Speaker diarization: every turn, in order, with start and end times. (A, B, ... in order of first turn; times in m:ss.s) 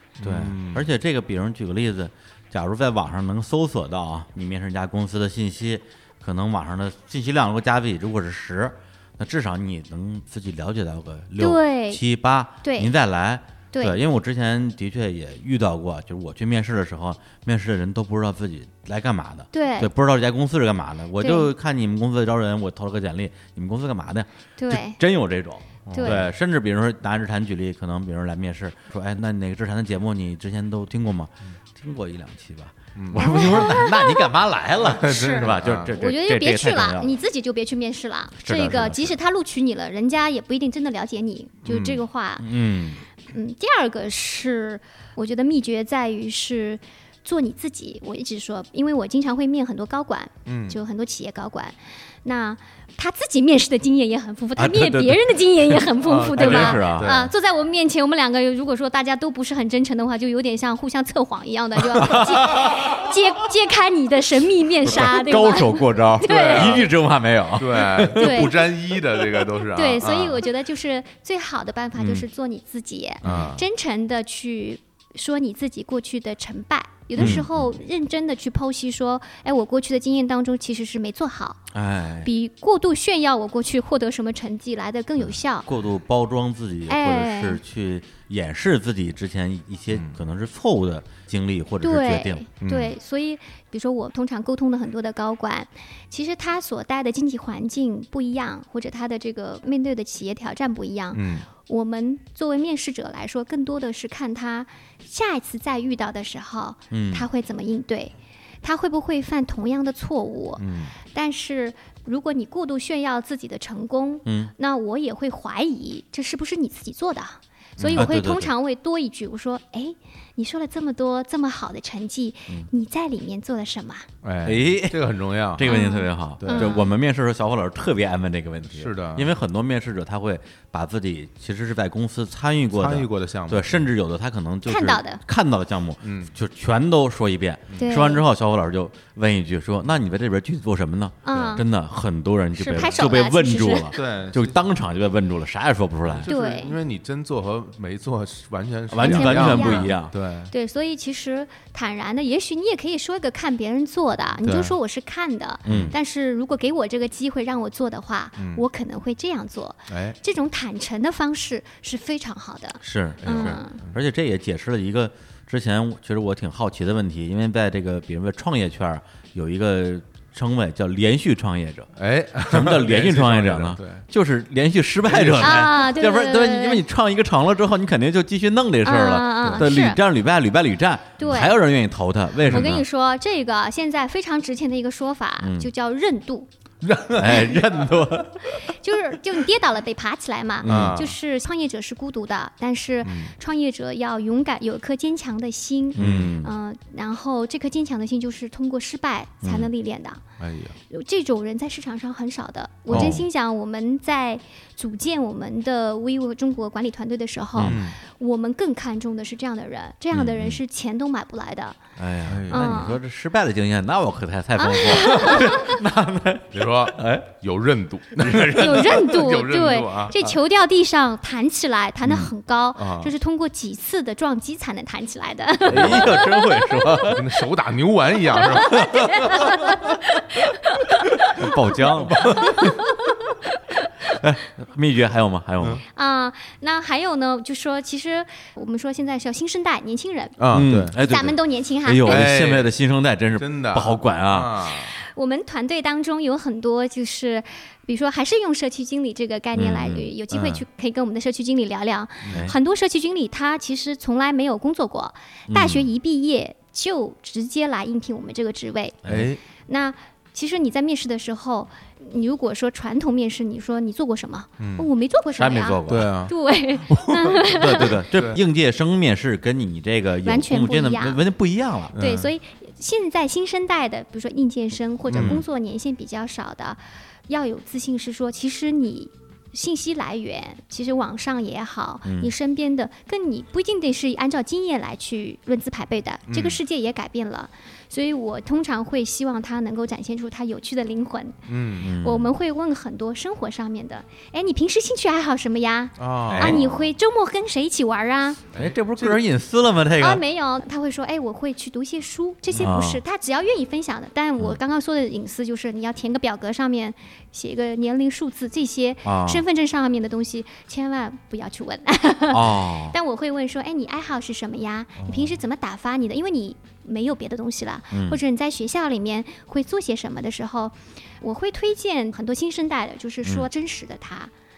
0:00.2-0:00.9 A
0:00.2-0:37.1 B
0:11.4-0:12.0 C
0:12.6-0:12.9 C
0:13.7-0:14.0 C
0:19.5-0:19.9 C
0:21.2-0:21.5 C
0:24.6-0:25.0 C
0:25.9-0:26.3 A
0:25.9-0:26.2 C
0:33.0-0:33.7 A
0:33.2-0:34.3 C
0:34.8-0:35.9 A
0:35.1-0:42.5 C
0:38.4-0:39.2 B
0:41.7-0:42.0 A
0:42.4-0:43.0 B
0:43.3-1:06.9 C
0:50.5-0:50.8 A
0:54.6-0:57.3 B
0:56.0-0:57.3 A
1:01.9-1:03.1 B
1:04.8-1:09.4 B
1:06.2-1:06.9 A
1:07.6-1:10.4 A
1:08.2-1:08.6 C
1:09.7-1:21.6 C
1:12.0-1:12.2 B
1:13.2-1:13.5 B
1:13.2-1:13.6 A
1:17.2-1:17.4 A
1:17.2-1:17.8 B
1:21.7-1:22.3 B
1:22.2-1:25.7 C
1:25.6-1:32.4 B
1:26.9-1:27.6 C
1:29.9-1:30.2 A
1:31.8-2:04.1 C
1:32.6-1:33.0 A
1:41.1-1:41.5 A
1:46.9-1:47.3 B
1:50.6-1:51.0 A
1:54.3-1:54.5 B
1:57.8-1:58.1 A
1:57.9-1:58.5 B
2:04.2-2:05.8 A
2:04.4-2:26.3 B
2:05.6-2:06.9 C
2:06.4-2:06.8 A
2:08.7-2:09.3 A
2:12.7-2:13.8 A
2:14.7-2:15.2 C
2:16.0-2:16.3 A
2:17.8-2:18.2 C
2:21.2-2:21.6 C
2:21.3-2:21.6 A
2:22.6-2:24.0 C
2:23.9-2:24.6 A
2:26.1-2:30.5 A
2:26.3-2:26.8 C
2:28.9-2:30.1 B
2:29.0-2:30.0 C
2:30.5-2:43.8 C
2:34.4-2:34.8 A
2:35.6-2:36.0 B
2:35.7-2:35.9 A
2:38.4-2:38.6 A
2:39.9-2:40.2 A
2:42.8-2:51.9 B
2:43.2-2:43.9 A
2:52.0-2:54.1 A
2:52.5-3:02.8 B
2:55.0-2:55.8 A
2:55.4-2:56.8 C
2:58.8-3:00.0 C
3:01.2-3:01.6 C
3:02.4-3:02.7 A
3:02.5-3:06.5 C
3:05.4-3:05.7 B
3:06.8-3:08.0 A
3:07.2-3:08.7 B
3:08.6-3:20.2 C
3:10.6-3:11.1 B
3:10.6-3:11.2 A
3:13.0-3:13.4 A
3:16.0-3:16.5 B
3:16.0-3:16.3 A
3:19.4-3:19.7 B
3:20.4-3:20.8 A
3:20.9-3:31.8 C
3:22.9-3:23.2 A
3:22.9-3:23.3 B
3:27.6-3:27.8 B
3:27.6-3:28.0 A
3:30.1-3:30.6 B
3:32.0-3:37.3 B
3:32.3-3:32.8 A
3:32.5-3:33.0 C
3:34.6-3:35.8 C
3:36.5-3:40.4 A
3:38.2-3:39.1 B
3:38.5-3:47.0 C
3:42.0-3:42.3 B
3:42.8-3:43.1 A
3:45.6-3:46.2 A
3:45.7-3:47.3 B
3:47.0-3:49.5 A
3:48.4-3:51.5 C
3:48.7-3:49.8 B
3:51.3-3:52.8 B
3:52.1-3:52.6 A
3:52.4-3:53.0 C
3:54.1-3:55.8 B
3:55.9-4:00.4 C
4:00.4-4:01.0 A
4:00.5-4:04.6 B
4:00.9-4:02.3 C
4:02.0-4:02.7 A
4:03.4-4:04.9 A
4:04.9-4:19.0 C
4:09.5-4:10.1 B
4:10.3-4:10.6 A
4:12.2-4:12.5 A
4:12.3-4:12.6 B
4:15.5-4:15.9 B
4:19.0-4:19.3 B
4:19.1-4:19.4 A
4:19.7-4:28.0 C
4:24.6-4:24.9 A
4:25.4-4:26.1 B
4:25.9-4:26.3 A
4:26.9-4:28.4 A
4:27.4-4:32.0 B
4:30.2-4:31.2 C
4:31.9-4:32.3 A
4:31.9-4:58.4 C
4:35.1-4:35.4 A
4:35.2-4:35.4 B
4:42.0-4:42.3 B
4:46.3-4:46.6 A
4:51.5-4:51.9 A
4:51.8-4:52.3 B
4:56.0-4:56.6 A
4:56.3-4:56.9 B
4:58.5-4:59.2 A
4:58.6-5:00.2 B
5:00.0-5:24.3 C
5:02.5-5:03.0 B
5:09.0-5:09.4 B
5:12.3-5:13.0 B
5:17.9-5:18.2 B